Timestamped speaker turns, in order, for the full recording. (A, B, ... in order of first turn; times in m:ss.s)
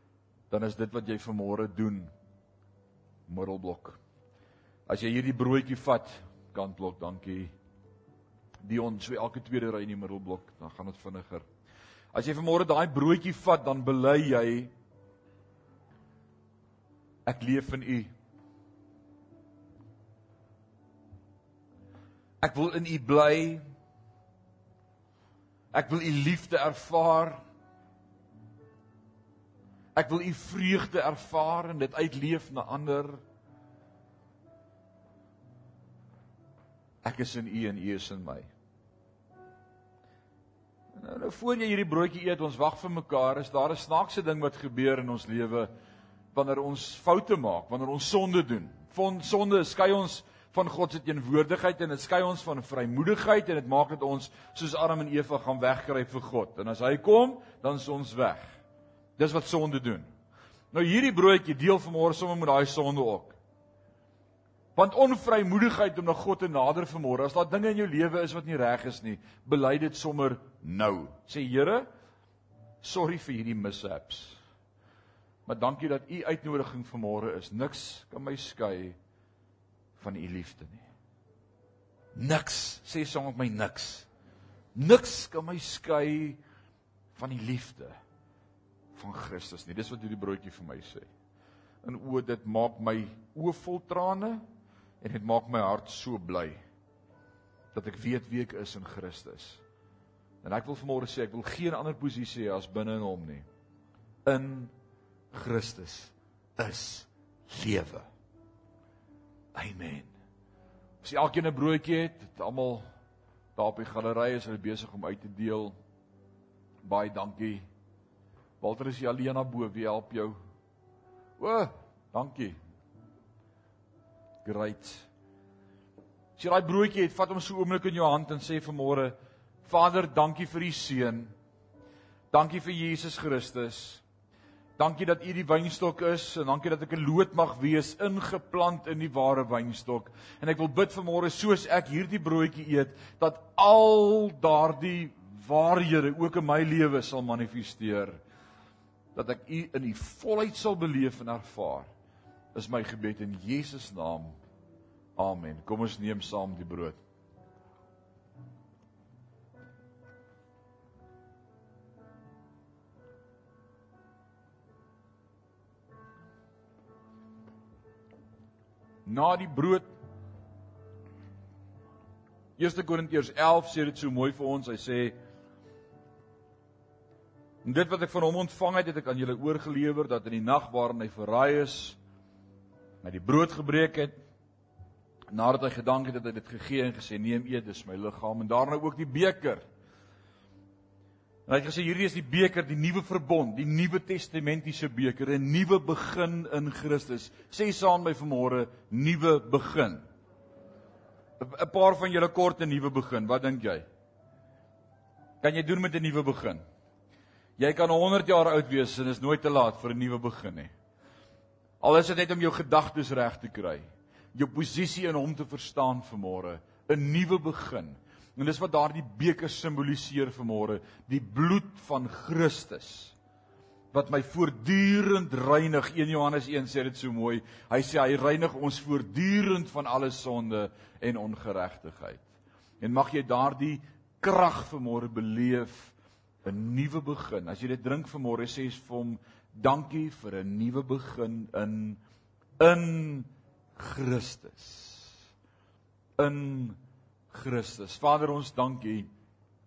0:00.5-0:02.1 A
0:03.3-0:04.0 A
0:04.9-0:07.5 A
0:08.6-0:11.4 A
0:12.1-0:14.7 A
0:17.2-0:18.1 A
0:22.4-0:23.6 A
0:25.7-0:27.4 A
0:29.9-0:33.2 A
0:37.0-0:38.5 A
0:41.0-0:45.7 A
0:46.3-0:58.5 A
0:59.2-1:00.1 A
1:00.7-1:03.4 A
1:04.8-1:11.9 A
1:12.8-1:14.4 A
1:15.4-1:19.0 A
1:20.0-1:20.9 A
1:22.1-1:24.1 A
1:24.7-1:26.4 A
1:27.1-1:28.0 A
1:29.0-1:31.1 A
1:31.8-1:34.4 A
1:35.0-1:36.6 A
1:37.7-1:39.6 A
1:40.4-1:43.4 A
1:44.2-1:44.7 A
1:45.3-1:48.1 A
1:49.6-1:50.1 A
1:51.0-1:52.8 A
1:53.6-1:55.7 A
1:56.8-1:57.7 A
1:58.6-2:00.4 A
2:01.4-2:02.6 A
2:04.4-2:05.1 A
2:06.4-2:11.3 A
2:12.3-2:14.0 A
2:14.8-2:28.2 A
2:29.1-2:31.9 A
2:32.5-2:34.4 A
2:35.2-2:37.0 A
2:49.0-2:49.9 A
2:52.6-2:55.2 A
2:57.6-3:02.0 A
3:03.0-3:04.2 A
3:05.3-3:09.6 A
3:11.5-3:20.0 A
3:21.4-3:23.8 A
3:25.4-3:26.6 A
3:27.6-3:30.7 A
3:31.8-3:43.1 A
3:43.9-3:52.2 A
3:52.8-3:55.9 A
3:56.4-4:02.0 A
4:02.6-4:05.1 A
4:06.2-4:06.8 A
4:07.3-4:09.1 A